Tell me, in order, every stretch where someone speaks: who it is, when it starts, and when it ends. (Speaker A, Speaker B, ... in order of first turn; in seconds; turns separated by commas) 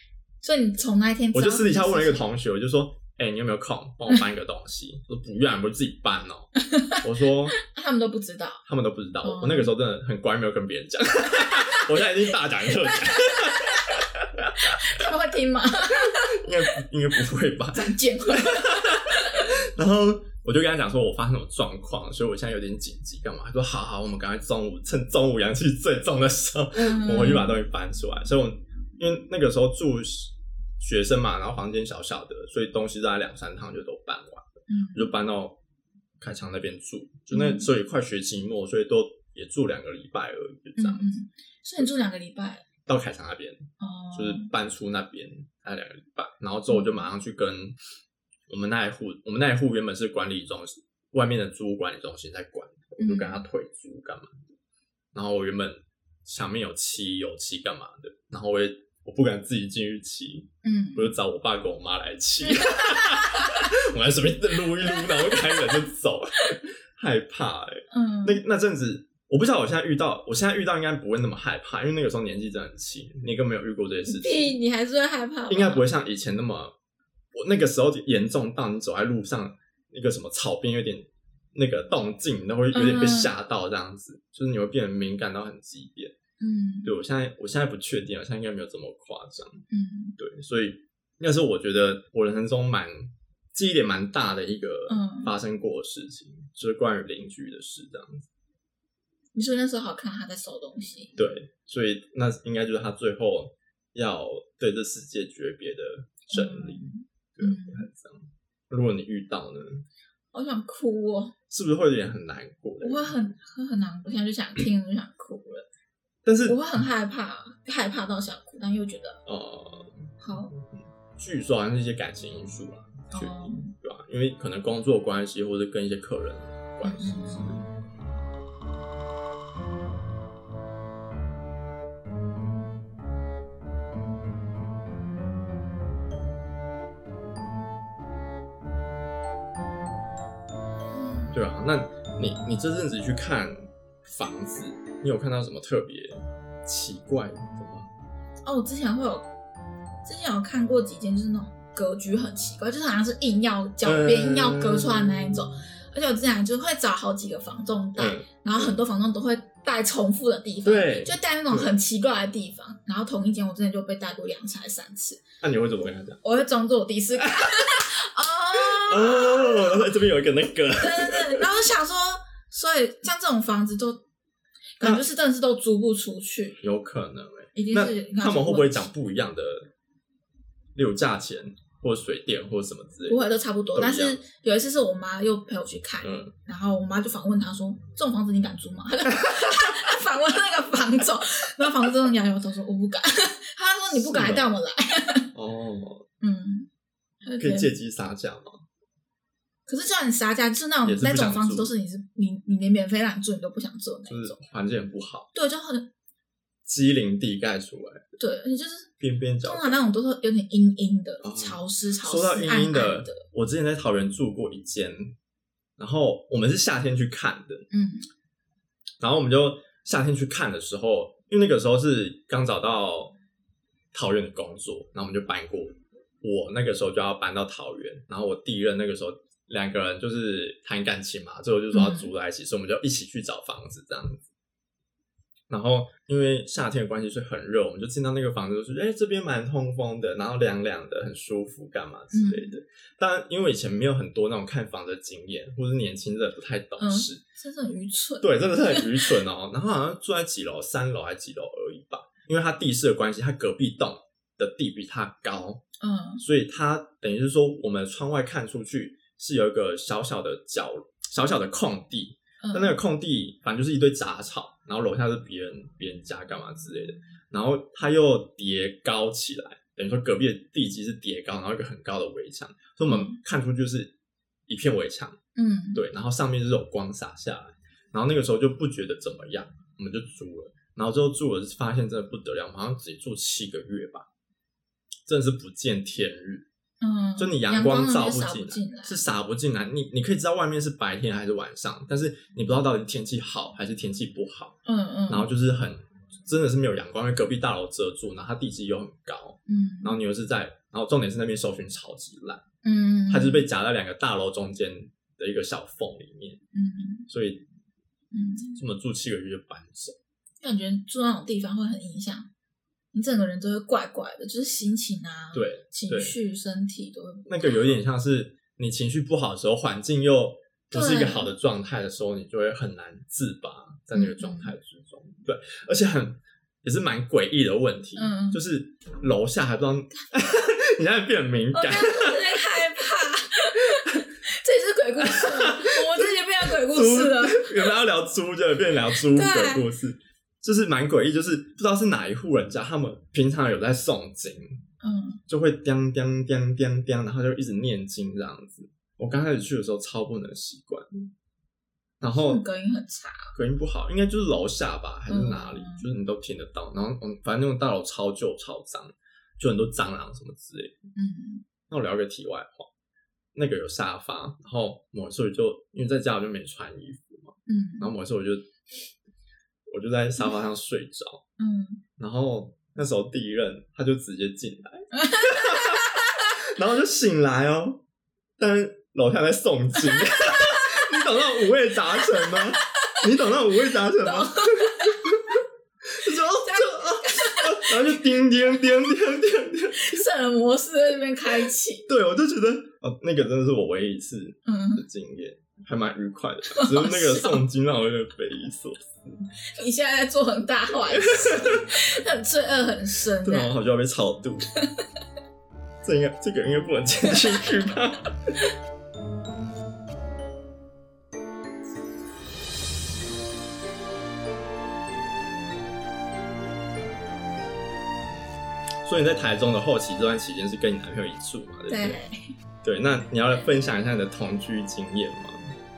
Speaker A: 0.4-2.2, Speaker B: 1.3-7.5, Speaker A: 6.6-7.0, Speaker A: 7.5-8.6, Speaker B: 8.7-15.1, Speaker A: 9.2-9.7, Speaker A: 11.4-12.1, Speaker A: 12.6-14.0, Speaker A: 14.6-16.8, Speaker B: 15.9-35.6, Speaker A: 17.7-19.5, Speaker A: 26.7-27.5, Speaker A: 34.7-35.1, Speaker B: 36.2-41.1, Speaker A: 37.3-37.7, Speaker A: 40.8-42.6, Speaker B: 42.9-47.8, Speaker A: 43.8-44.5, Speaker A: 46.7-47.0, Speaker B: 48.5-54.5, Speaker A: 53.0-53.4, Speaker B: 55.1-74.5, Speaker A: 60.6-61.1, Speaker A: 62.5-63.6, Speaker A: 64.8-65.8, Speaker A: 67.9-68.4, Speaker A: 74.1-75.8, Speaker B: 75.5-76.7, Speaker B: 77.3-86.1, Speaker A: 82.7-83.3, Speaker A: 86.4-86.9, Speaker B: 86.8-89.6, Speaker A: 89.7-90.2, Speaker B: 90.2-98.3, Speaker A: 94.9-95.3, Speaker A: 99.3-101.2, Speaker B: 101.2-109.8, Speaker A: 106.3-107.9, Speaker A: 110.3-111.3, Speaker B: 111.5-113.1, Speaker A: 112.8-115.7, Speaker B: 116.2-116.6, Speaker A: 116.4-119.2, Speaker B: 119.2-127.6, Speaker A: 120.2-120.5, Speaker A: 123.1-123.7, Speaker A: 126.8-127.7, Speaker A: 140.9-141.4, Speaker B: 141.3-147.9, Speaker A: 148.4-149.3, Speaker A: 150.0-165.2, Speaker B: 153.8-155.4, Speaker B: 157.9-158.8, Speaker B: 160.6-161.7, Speaker B: 165.4-166.2, Speaker A: 166.2-169.9, Speaker B: 167.2-167.8, Speaker B: 168.5-171.5, Speaker A: 170.8-174.0, Speaker A: 174.8-176.6, Speaker B: 176.6-179.7, Speaker A: 177.5-178.9, Speaker B: 180.7-183.2, Speaker A: 183.1-195.3, Speaker B: 183.7-184.2, Speaker B: 186.0-186.3, Speaker B: 189.2-189.7, Speaker B: 193.9-194.5, Speaker B: 195.3-196.1, Speaker A: 196.2-196.7, Speaker A: 197.2-197.7, Speaker B: 197.4-198.6, Speaker A: 199.7-204.4, Speaker B: 200.8-201.7, Speaker B: 204.1-205.3, Speaker A: 205.3-205.9, Speaker B: 206.7-208.0, Speaker A: 208.2-208.9, Speaker B: 209.0-209.8, Speaker A: 209.4-213.2, Speaker B: 211.2-215.1, Speaker B: 215.8-217.7, Speaker A: 217.7-218.1, Speaker B: 219.0-223.1, Speaker B: 223.9-234.2, Speaker A: 231.7-232.1, Speaker B: 235.5-247.2, Speaker A: 242.1-242.6, Speaker A: 246.8-249.2, Speaker B: 248.2-255.6, Speaker A: 255.8-256.2, Speaker B: 256.2-273.9, Speaker A: 262.4-262.8, Speaker A: 272.9-273.2, Speaker B: 274.5-275.2, Speaker A: 275.3-275.8, Speaker B: 275.7-284.1, Speaker B: 285.1-286.4, Speaker A: 286.8-289.0, Speaker B: 287.2-294.6, Speaker A: 294.6-295.3, Speaker B: 295.1-302.4, Speaker A: 299.5-300.0, Speaker A: 302.6-303.5, Speaker B: 303.1-306.4, Speaker A: 306.5-307.1, Speaker B: 307.1-307.4, Speaker A: 308.1-308.6, Speaker B: 308.5-310.0, Speaker A: 310.4-312.3, Speaker A: 312.9-317.8, Speaker B: 315.3-316.1, Speaker B: 317.3-332.5, Speaker A: 320.7-321.3, Speaker A: 323.9-324.5, Speaker A: 327.9-328.4, Speaker A: 331.5-337.8, Speaker B: 335.0-344.6, Speaker A: 338.9-339.7, Speaker A: 344.8-345.2, Speaker B: 345.3-351.1, Speaker B: 352.0-352.4, Speaker A: 352.1-353.3, Speaker B: 353.3-360.8, Speaker A: 355.1-355.9, Speaker A: 360.9-361.4, Speaker B: 361.7-362.7, Speaker B: 363.3-368.5, Speaker A: 367.5-367.9, Speaker B: 369.7-371.2, Speaker A: 371.4-371.8, Speaker B: 372.0-377.8, Speaker A: 374.9-376.2, Speaker B: 378.4-390.1, Speaker A: 379.9-380.9, Speaker A: 382.0-383.0, Speaker A: 383.8-385.1, Speaker A: 386.1-388.0, Speaker A: 389.7-391.9, Speaker B: 391.9-399.3, Speaker A: 394.4-394.8, Speaker A: 396.5-397.4, Speaker A: 399.5-403.5, Speaker B: 400.9-401.8, Speaker B: 403.2-404.5, Speaker A: 404.6-404.8, Speaker B: 405.8-408.1, Speaker A: 407.1-407.4, Speaker B: 418.8-422.0, Speaker A: 421.7-422.1, Speaker B: 422.6-425.5